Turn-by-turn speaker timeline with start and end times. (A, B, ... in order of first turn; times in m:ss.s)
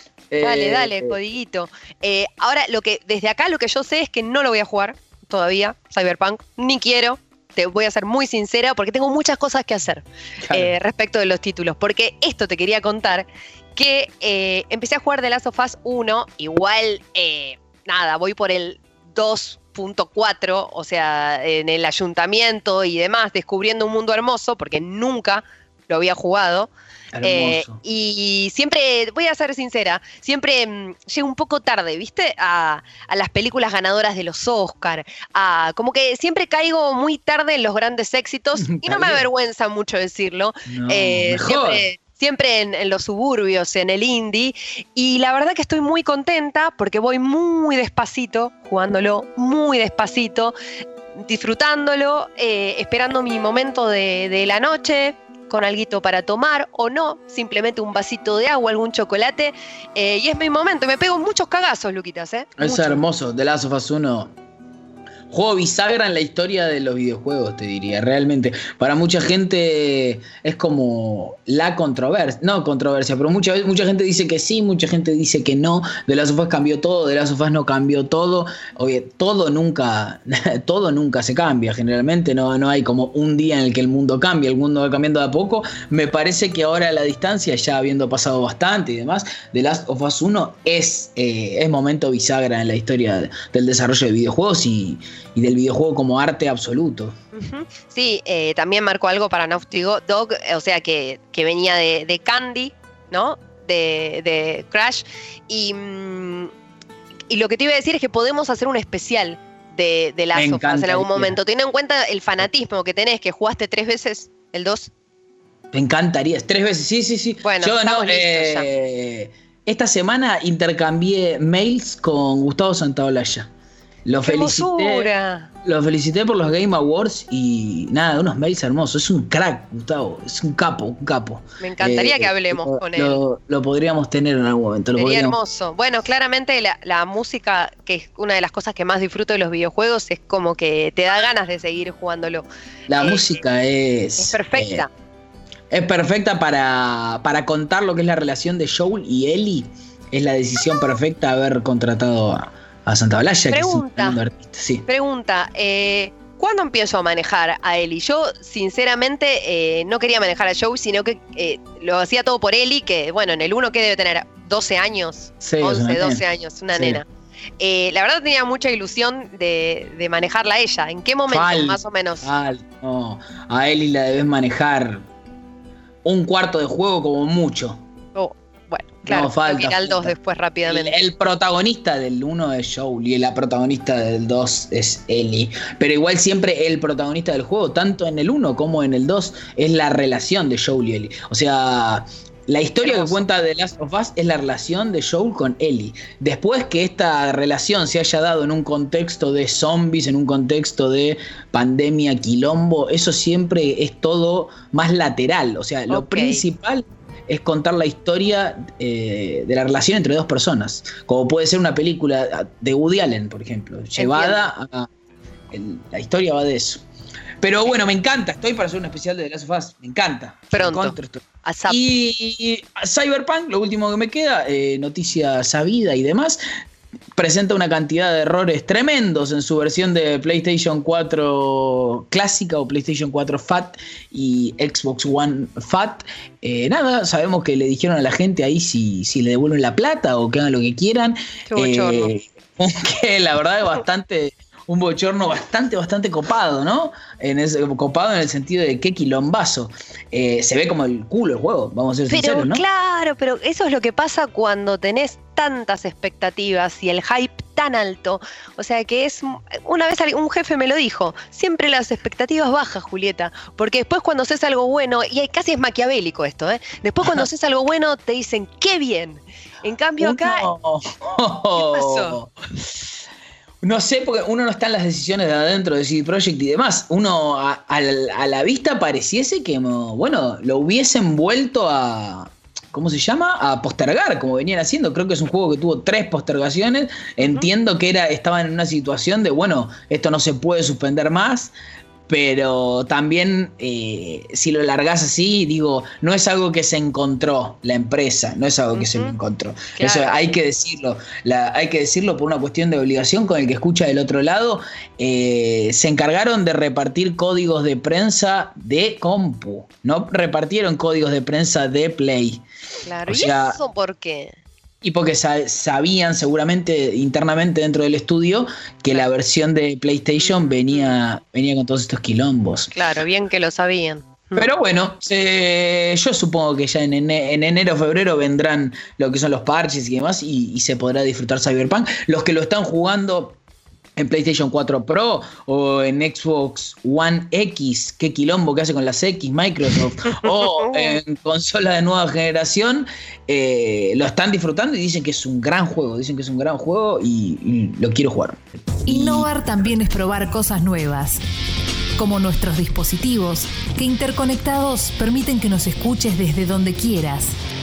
0:00.3-0:01.2 A
0:00.4-0:26.7 B
0:10.4-0:10.7 A
0:27.1-0:27.8 A
0:27.2-0:50.5 B
0:38.6-0:39.2 A
0:40.7-0:41.8 A
0:51.2-1:03.0 B
1:02.6-1:04.3 A
1:05.3-1:37.1 A
1:37.3-1:46.5 B
1:47.3-1:54.9 B
1:50.3-1:51.4 A
1:55.7-2:03.5 A
1:57.4-1:58.7 B
2:04.0-2:05.1 A
2:04.2-2:05.5 B
2:05.6-2:15.4 A
2:11.6-2:13.2 B
2:14.9-2:23.4 B
2:22.9-2:24.8 A
2:24.2-2:24.9 B
2:25.7-2:34.8 A
2:33.5-2:34.2 B
2:34.8-2:47.0 B
2:45.4-2:47.0 A
2:47.6-2:52.3 B
2:51.3-2:55.0 A
2:56.0-2:57.8 A
2:58.1-3:01.0 B
2:59.0-3:34.9 A
3:12.8-3:13.3 B
3:25.9-3:26.4 B
3:34.0-3:34.5 B
3:35.5-3:36.8 A
3:37.4-3:46.4 A
3:40.5-3:41.8 B
3:47.2-4:12.6 A
4:01.5-4:02.1 B
4:12.1-4:30.5 B
4:30.0-4:32.3 A
4:31.5-4:32.2 B
4:33.6-4:51.5 A
4:47.2-4:47.5 B
4:52.1-5:12.4 A
4:58.7-4:59.1 B
4:59.8-5:00.2 B
5:12.8-5:14.4 B
5:13.0-5:13.6 A
5:14.8-5:22.7 A
5:20.2-5:21.0 B
5:22.7-5:24.5 B
5:24.4-5:33.4 A
5:34.0-5:49.3 A
5:40.1-5:41.0 B
5:48.8-5:51.2 C
5:52.0-5:57.3 C